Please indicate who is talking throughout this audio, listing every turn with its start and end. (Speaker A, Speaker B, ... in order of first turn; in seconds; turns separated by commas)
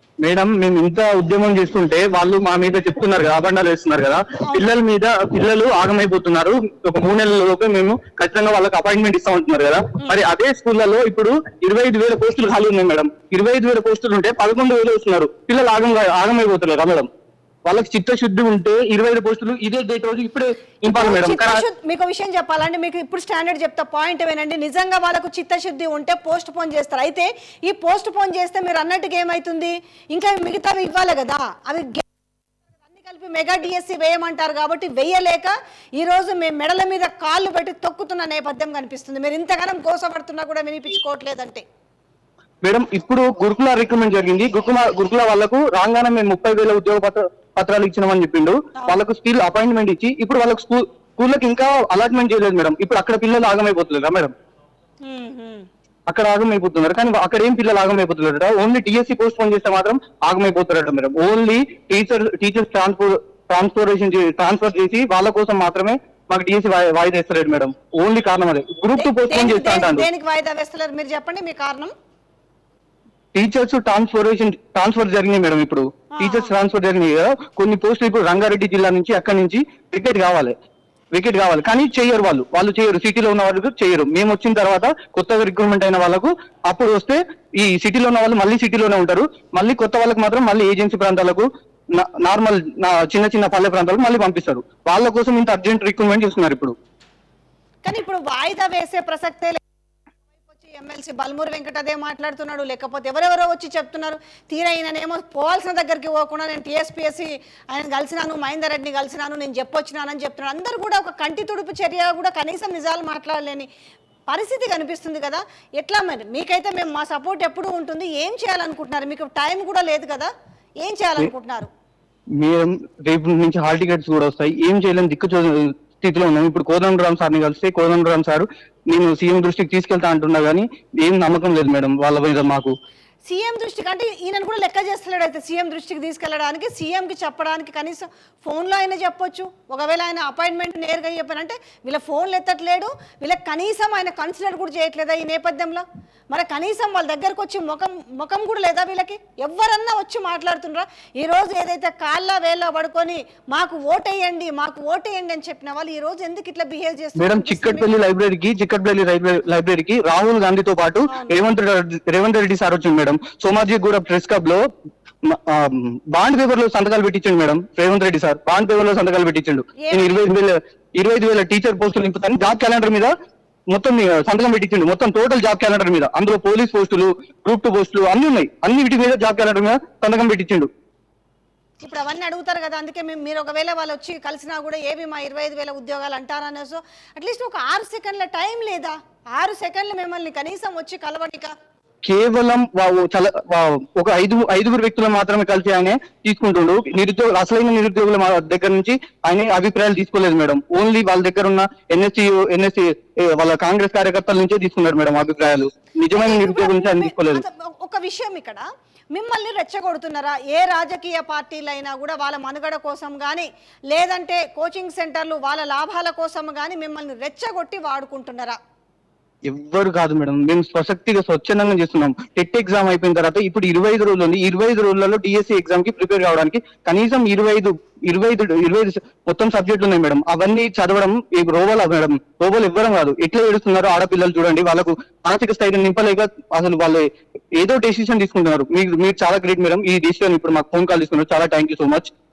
Speaker A: 0.2-17.1, Speaker A: 17.7-21.6, Speaker B: 20.9-32.0, Speaker B: 32.9-41.6, Speaker A: 42.6-54.3, Speaker B: 55.0-55.7, Speaker A: 56.1-70.1, Speaker B: 69.0-71.9, Speaker A: 73.3-80.5, Speaker B: 76.2-76.5, Speaker A: 81.1-91.5, Speaker A: 92.0-96.7, Speaker B: 97.8-99.6, Speaker B: 100.5-113.7, Speaker B: 114.3-120.3, Speaker B: 120.8-121.7, Speaker A: 122.4-132.7, Speaker B: 133.3-157.9, Speaker A: 157.2-164.6, Speaker B: 161.1-161.4, Speaker A: 165.3-173.1, Speaker B: 169.8-170.1, Speaker A: 173.7-180.7, Speaker B: 181.8-191.5, Speaker A: 192.1-207.4, Speaker B: 206.1-218.6, Speaker A: 219.5-237.0, Speaker A: 237.6-242.1